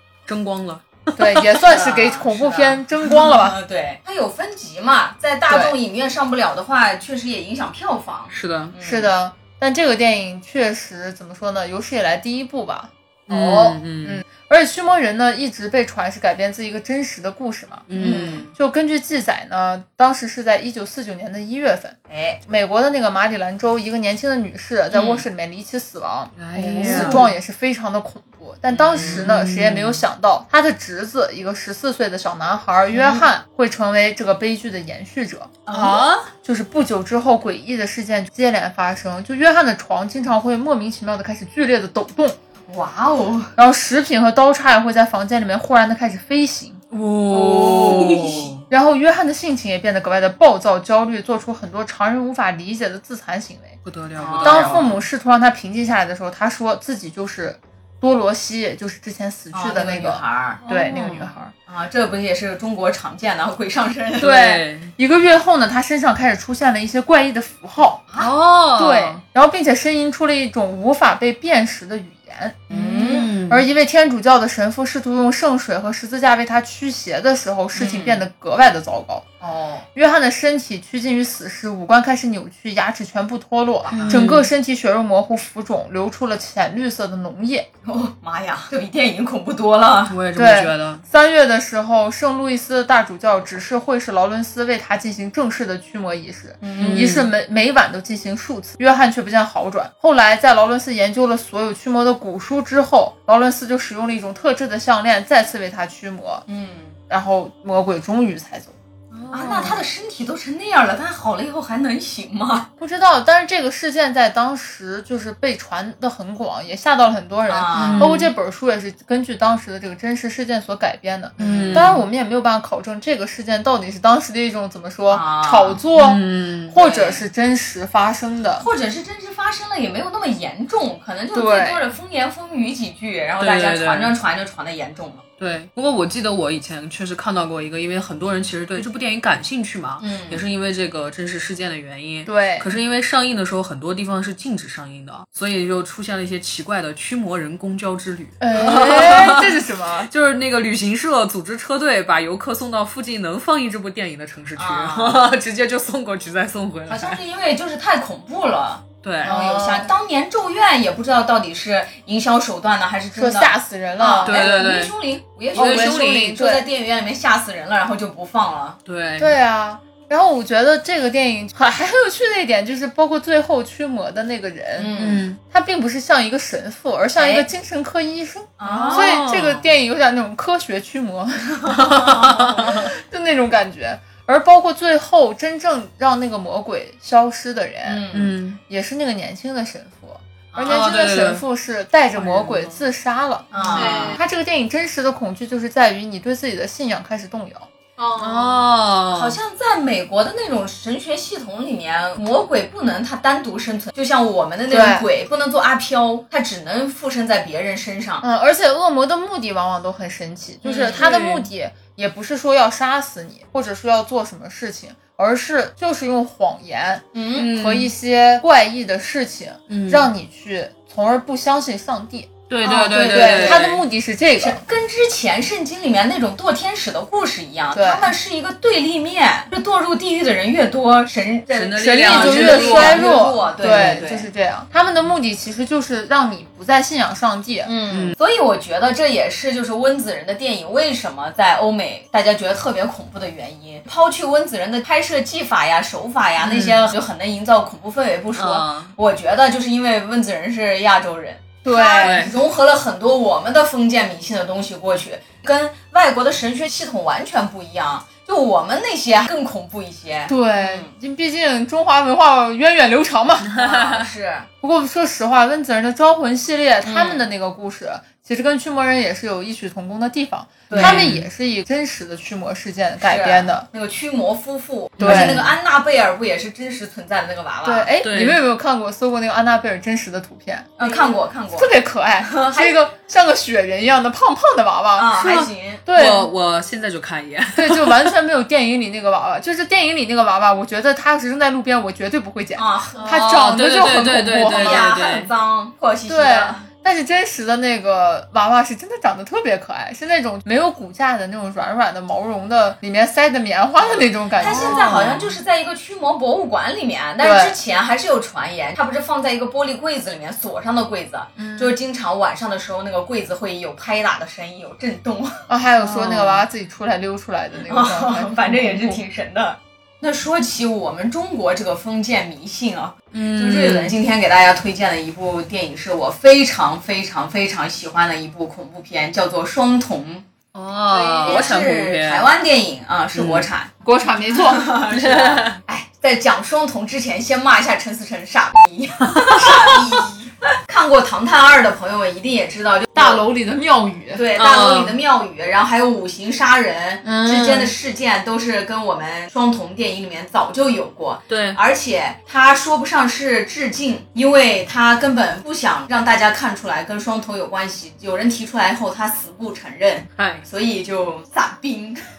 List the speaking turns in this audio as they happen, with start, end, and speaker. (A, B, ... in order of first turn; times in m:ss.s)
0:00.3-0:01.4 A
0:01.2-0:03.6 B
0:01.6-0:09.1 C
0:05.5-0:05.7 B
0:08.3-0:08.7 A
0:08.8-0:35.7 B
0:13.3-0:14.2 A
0:17.9-0:18.5 A
0:18.0-0:18.5 C
0:22.1-0:22.4 C
0:24.9-0:25.2 C
0:26.4-0:27.3 A
0:26.7-0:27.3 C
0:28.7-0:29.2 C
0:28.9-0:30.0 A
0:32.9-0:33.2 C
0:35.6-0:36.1 C
0:35.7-0:36.3 A
0:36.4-0:42.4 B
0:42.7-0:43.5 C
0:43.6-0:46.8 B
0:46.9-0:48.6 A
0:47.3-0:48.5 C
0:48.7-0:53.8 B
0:53.8-0:54.9 A
0:54.2-0:54.8 C
0:54.4-1:01.5 B
0:59.5-1:00.6 C
1:00.6-1:01.3 A
1:01.7-1:04.3 C
1:04.2-1:04.9 A
1:04.2-1:08.0 B
1:08.2-1:09.2 A
1:08.8-1:12.6 B
1:12.7-1:13.3 C
1:12.7-1:13.6 A
1:13.5-1:19.2 B
1:17.7-1:18.2 C
1:19.4-1:19.8 C
1:19.9-1:27.7 B
1:23.9-1:24.2 C
1:23.9-1:24.5 A
1:27.8-1:30.2 C
1:30.1-1:31.0 A
1:30.4-1:46.4 B
1:36.6-1:37.1 C
1:36.8-1:37.3 A
1:46.5-1:46.9 C
1:47.1-1:48.8 B
1:49.2-1:49.8 A
1:49.3-1:52.7 C
1:49.4-1:49.8 B
1:52.8-2:08.7 B
1:57.5-1:58.1 C
1:57.8-1:58.3 A
2:01.4-2:01.9 C
2:01.4-2:02.0 A
2:05.1-2:05.8 C
2:05.9-2:06.8 A
2:06.8-2:07.2 C
2:08.6-2:15.2 C
2:11.3-2:11.8 B
2:13.4-2:14.2 A
2:15.4-2:37.2 A
2:20.0-2:20.4 C
2:22.2-2:22.7 B
2:28.4-2:30.1 B
2:34.6-2:35.2 C
2:36.9-2:48.8 C
2:39.0-2:39.4 A
2:39.2-2:39.9 B
2:43.2-2:44.5 B
2:44.2-2:45.0 A
2:45.5-2:46.4 A
2:45.5-2:46.6 B
2:48.8-2:49.4 A
2:49.2-2:54.9 B
2:54.8-2:55.2 C
2:54.9-2:55.4 A
2:55.5-3:08.0 B
2:57.2-2:57.4 C
2:58.6-2:59.2 C
2:58.6-2:59.6 A
3:01.9-3:02.9 A
3:02.0-3:02.3 C
3:07.8-3:08.4 C
3:08.1-3:08.6 A
3:08.7-3:17.7 B
3:10.5-3:10.9 C
3:10.6-3:11.4 A
3:12.1-3:12.8 A
3:13.5-3:14.2 C
3:13.6-3:14.2 A
3:18.2-3:19.4 A
3:19.1-3:28.2 C
3:24.7-3:25.0 B
3:28.2-3:44.6 B
3:30.6-3:31.5 A
3:30.8-3:31.0 C
3:37.1-3:37.5 C
3:37.3-3:37.9 A
3:39.7-3:40.1 A
3:42.5-3:43.8 A
3:42.6-3:43.7 C
3:44.4-3:54.3 C
3:47.7-3:48.1 B
3:51.5-3:53.1 A
3:51.8-3:57.7 B
3:57.6-4:20.9 C
3:57.9-3:58.2 A
4:06.4-4:06.9 A
4:08.3-4:08.9 A
4:11.6-4:12.2 B
4:12.0-4:12.4 A
4:20.3-4:23.7 B
4:23.6-4:24.5 C
4:24.6-4:33.6 B
4:26.8-4:27.3 C
4:30.7-4:31.1 C
4:30.7-4:31.3 A
4:33.0-4:37.9 C
4:35.0-4:35.5 A
4:35.0-4:35.4 B
4:37.6-4:45.1 B
4:38.0-4:38.4 A
4:40.8-4:41.7 C
4:42.2-4:42.8 C
4:45.0-4:45.8 C
4:45.2-4:48.1 A
4:45.8-4:46.3 B
4:47.6-4:54.9 B
4:52.6-4:53.2 C
4:53.0-4:55.3 A
4:54.4-4:56.6 C
4:56.1-5:04.8 B
5:03.8-5:15.4 C
5:04.4-5:05.4 A
5:07.2-5:07.6 B
5:11.4-5:11.7 B
5:15.5-5:19.0 B
5:15.8-5:16.4 A
5:17.7-5:30.2 C
5:23.1-5:24.0 A
5:30.5-5:32.3 A
5:30.9-5:33.7 C
5:33.1-5:33.5 A
5:33.8-5:34.7 B
5:34.3-5:43.2 C
5:34.9-5:35.6 A
5:39.2-5:39.8 A
5:42.9-5:44.2 B
5:44.1-6:02.0 C
5:44.3-5:45.0 A
5:47.0-5:47.6 B
5:47.3-5:47.6 A
5:51.3-5:51.6 A
6:00.2-6:00.4 A